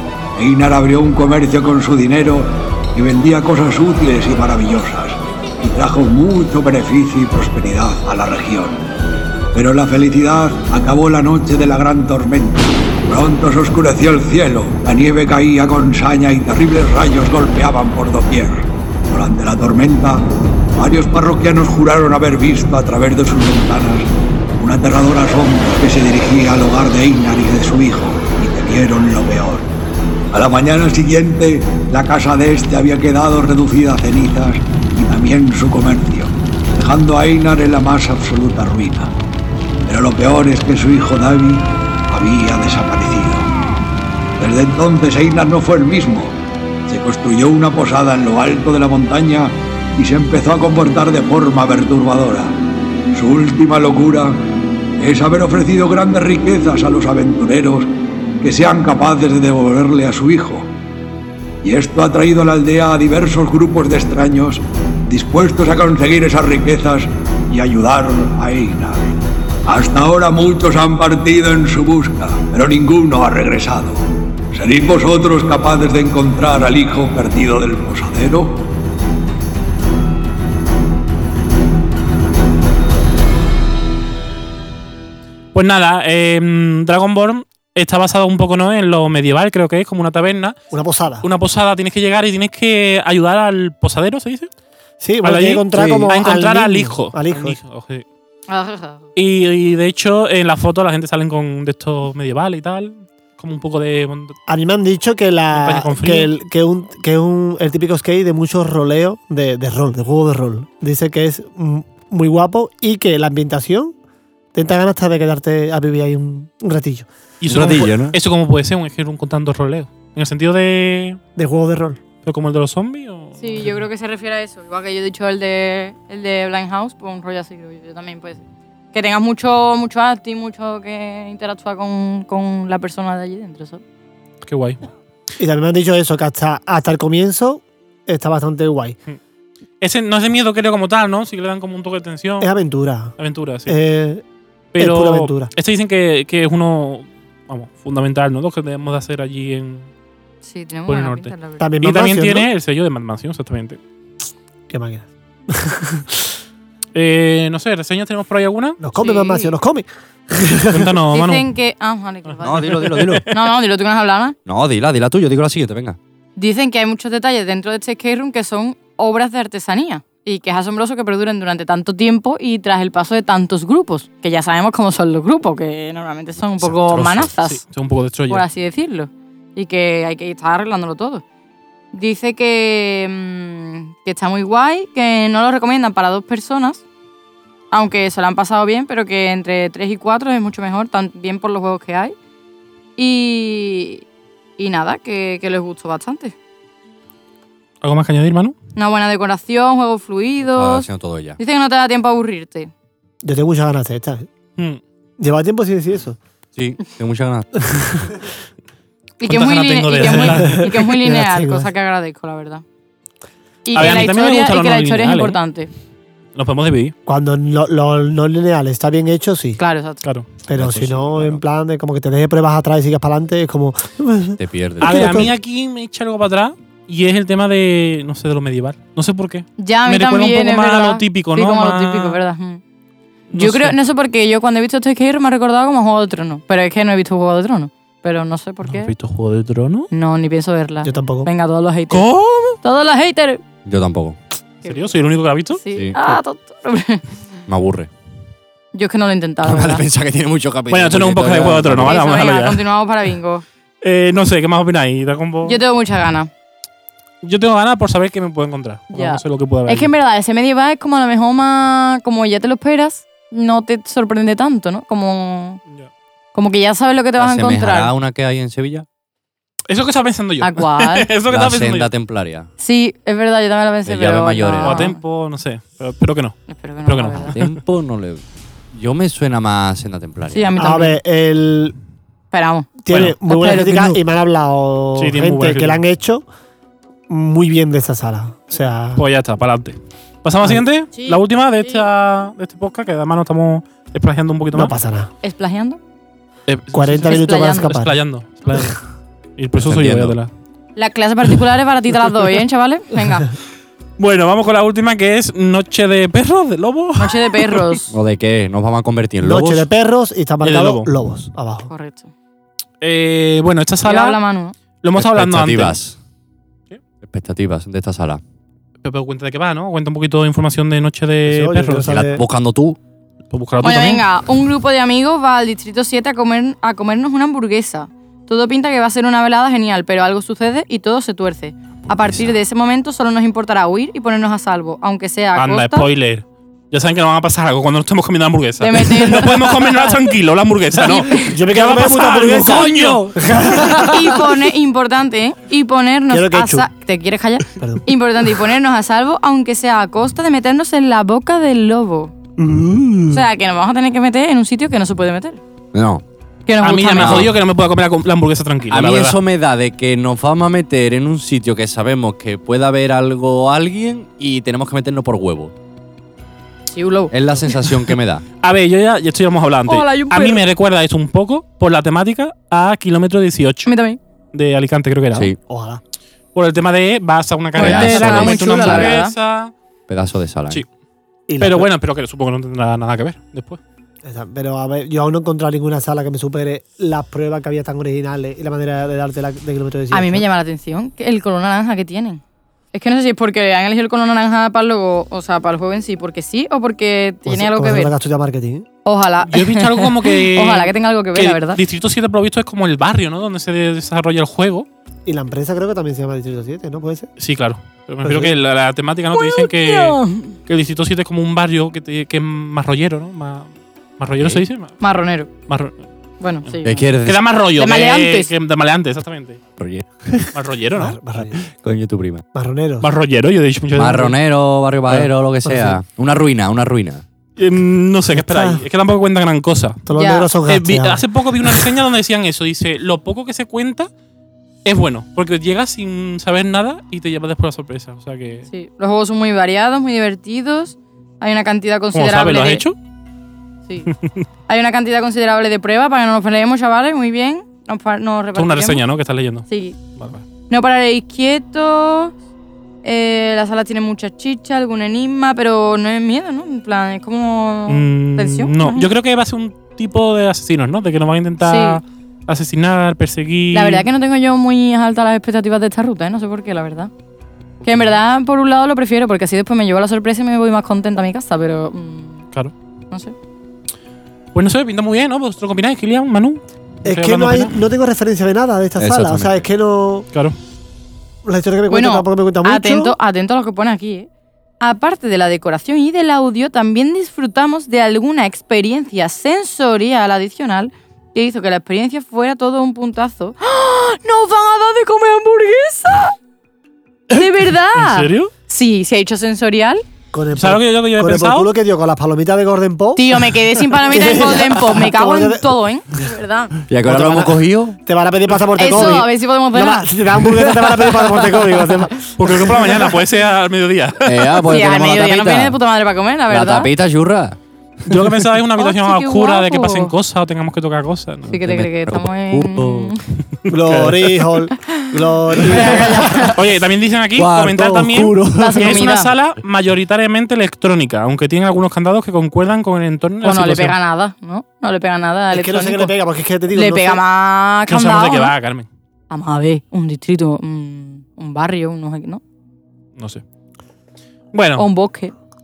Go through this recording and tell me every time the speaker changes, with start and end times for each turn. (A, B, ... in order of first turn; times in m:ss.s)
0:00.4-0:08.9 A
0:09.5-0:24.1 A
0:24.6-0:29.7 A
0:30.3-0:39.1 A
0:39.9-0:43.5 A
0:44.4-0:46.4 A
0:46.9-0:52.5 A
0:53.1-0:54.4 A
0:55.0-1:00.7 A
1:01.6-1:09.1 A
1:09.7-1:14.0 A
1:14.5-1:18.6 A
1:25.5-1:30.6 B
1:30.7-1:31.3 C
1:31.2-1:34.5 B
1:35.0-1:37.6 C
1:35.2-1:38.0 B
1:35.7-1:36.1 D
1:38.5-1:39.1 E
1:39.2-1:44.4 B
1:44.5-1:53.9 C
1:45.5-1:46.3 B
1:54.5-1:57.1 C
1:57.4-2:01.2 B
1:57.5-1:58.2 D
2:01.4-2:02.0 C
2:02.2-2:03.7 B
2:03.4-2:08.4 E
2:08.9-2:13.8 E
2:14.4-2:14.8 B
2:15.4-2:19.0 C
2:19.8-2:22.5 B
2:22.4-2:24.2 C
2:23.2-2:23.8 B
2:24.7-2:29.9 B
2:24.8-2:25.5 C
2:30.4-2:31.6 E
2:30.9-2:33.8 B
2:31.6-2:32.5 C
2:34.7-2:36.4 C
2:37.0-2:38.8 B
2:38.8-2:41.0 C
2:38.9-2:39.5 E
2:40.7-2:41.5 B
2:41.1-2:44.4 E
2:42.4-2:43.3 D
2:42.6-2:43.3 B
2:44.5-2:46.0 D
2:46.4-2:57.6 E
2:56.5-2:57.3 D
2:56.9-2:58.4 B
2:58.3-3:01.2 E
3:01.9-3:06.8 E
3:07.7-3:12.2 E
3:13.0-3:14.0 E
3:14.6-3:16.3 E
3:17.8-3:18.6 B
3:18.8-3:22.7 E
3:20.4-3:21.4 D
3:23.2-3:24.3 C
3:25.2-3:26.2 C
3:26.6-3:27.5 D
3:27.6-3:28.2 C
3:29.2-3:32.6 E
3:29.2-3:30.8 B
3:30.2-3:31.7 C
3:33.7-3:35.7 E
3:33.7-3:35.4 B
3:36.4-3:36.9 B
3:37.1-3:39.6 C
3:39.6-3:40.0 E
3:40.5-3:45.3 C
3:40.5-3:41.4 D
3:44.4-3:45.3 D
3:44.8-3:52.2 B
3:49.6-3:52.6 E
3:53.3-3:53.8 B
3:53.3-3:58.9 E
3:58.6-3:59.9 B
3:59.9-4:02.1 E
4:00.8-4:01.3 C
4:01.9-4:02.6 B
4:02.6-4:03.4 E
4:03.6-4:04.2 D
4:04.6-4:05.6 B
4:04.6-4:05.0 E
4:05.6-4:07.0 E
4:05.7-4:06.2 D
4:07.5-4:07.9 D
4:08.7-4:09.8 E
4:09.4-4:12.0 D
4:10.7-4:12.6 B
4:11.8-4:13.4 E
4:13.8-4:15.6 B
4:15.4-4:16.3 E
4:17.2-4:19.9 B
4:18.9-4:25.6 E
4:26.4-4:27.9 E
4:27.2-4:28.9 D
4:29.7-4:31.9 B
4:30.4-4:31.1 E
4:31.3-4:32.5 D
4:32.6-4:35.0 E
4:33.9-4:34.9 D
4:34.6-4:37.6 B
4:36.5-4:37.4 E
4:37.3-4:40.5 D
4:40.3-4:41.0 E
4:40.6-4:41.7 C
4:42.3-4:43.9 E
4:42.8-4:46.3 C
4:42.9-4:43.8 B
4:45.0-4:45.8 B
4:47.1-4:49.1 C
4:49.0-4:54.7 B
4:50.9-4:51.9 E
4:54.5-4:55.1 C
4:55.2-4:55.8 E
4:56.5-4:58.8 B
4:56.7-4:58.0 C
4:57.1-4:57.7 E
4:59.4-5:00.3 B
4:59.6-5:00.2 D
5:00.8-5:03.3 E
5:04.0-5:07.8 B
5:07.0-5:07.9 E
5:07.9-5:09.7 D
5:09.2-5:11.7 C
5:10.4-5:10.9 B
5:11.7-5:12.1 E
5:12.8-5:14.2 B
5:13.8-5:14.6 E
5:14.8-5:15.8 B
5:15.0-5:16.0 D
5:17.0-5:18.2 D
5:18.8-5:21.9 B
5:21.3-5:22.2 C
5:21.9-5:22.8 D
5:23.3-5:24.0 B
5:23.6-5:35.9 E
5:35.4-5:43.9 B
5:38.6-5:40.0 E
5:40.8-5:41.3 E
5:41.1-5:44.3 C
5:43.9-5:52.1 E
5:46.1-5:46.7 C
5:47.6-5:47.8 C
5:52.4-5:53.3 C
5:53.1-5:55.4 E
5:55.7-5:56.0 D
5:56.4-5:57.3 E
5:56.6-5:59.2 B
5:57.0-5:57.3 D
5:58.7-6:05.5 D
6:06.7-6:07.7 E
6:07.1-6:08.2 D
6:08.4-6:13.7 B
6:09.7-6:10.4 E
6:13.7-6:14.0 E
6:14.3-6:15.3 B
6:15.5-6:15.8 C
6:16.4-6:19.5 B
6:17.6-6:19.1 E
6:17.6-6:19.0 D
6:19.9-6:20.6 D
6:21.3-6:21.7 C
6:21.4-6:23.6 B
6:24.0-6:30.2 C
6:29.9-6:32.2 E
6:32.7-6:37.9 E
6:37.3-6:38.7 C
6:38.8-6:41.6 E
6:39.3-6:44.7 B
6:45.1-6:47.1 C
6:47.2-6:54.8 B
6:48.0-6:48.4 C
6:49.1-6:50.4 E
6:54.8-6:55.3 E
6:55.5-6:55.7 B
6:56.2-6:56.9 E
6:56.6-6:57.2 D
6:57.0-6:59.4 B
6:57.6-6:58.3 E
6:59.6-7:00.3 D
7:00.3-7:01.0 B
7:00.7-7:01.4 C
7:01.2-7:02.2 D
7:02.3-7:02.9 C
7:02.8-7:04.1 B
7:03.8-7:07.0 D
7:04.9-7:05.8 C
7:07.4-7:09.8 B
7:08.1-7:08.6 C
7:09.9-7:11.5 C
7:10.0-7:10.3 E
7:10.4-7:13.9 B
7:14.6-7:18.5 B
7:18.5-7:22.7 E
7:21.9-7:22.8 B
7:23.9-7:24.2 B
7:24.5-7:28.8 E
7:28.4-7:29.4 B
7:29.5-7:29.8 E
7:30.0-7:30.2 B
7:30.5-7:32.1 E
7:32.8-7:38.9 E
7:37.7-7:43.9 B
7:41.4-7:41.8 E
7:43.5-7:46.9 E
7:47.6-7:48.0 B
7:47.6-7:52.3 E
7:54.3-7:57.5 B
7:56.8-8:00.1 C
7:58.8-7:59.4 D
8:01.2-8:03.0 C
8:01.7-8:04.1 E
8:04.6-8:16.1 E
8:17.1-8:19.8 E
8:17.7-8:18.3 B
8:20.1-8:25.6 C
8:20.4-8:21.5 B
8:23.0-8:26.5 E
8:26.7-8:27.8 D
8:26.8-8:32.9 C
8:28.6-8:29.8 E
8:32.2-8:34.2 B
8:34.0-8:35.6 D
8:34.5-8:36.7 E
8:36.3-8:37.4 D
8:37.9-8:41.3 B
8:38.6-8:39.9 E
8:41.3-8:43.0 E
8:41.3-8:42.9 D
8:43.4-8:44.1 B
8:43.5-8:46.4 C
8:45.4-8:46.4 E
8:46.3-8:53.7 B
8:47.2-8:48.7 D
8:48.4-8:49.1 E
8:53.2-8:56.0 E
8:55.3-8:57.0 C
8:56.5-8:58.3 E
8:57.7-8:58.7 B
8:59.1-9:02.2 E
9:03.0-9:03.2 B
9:04.3-9:04.6 B
9:04.6-9:05.1 E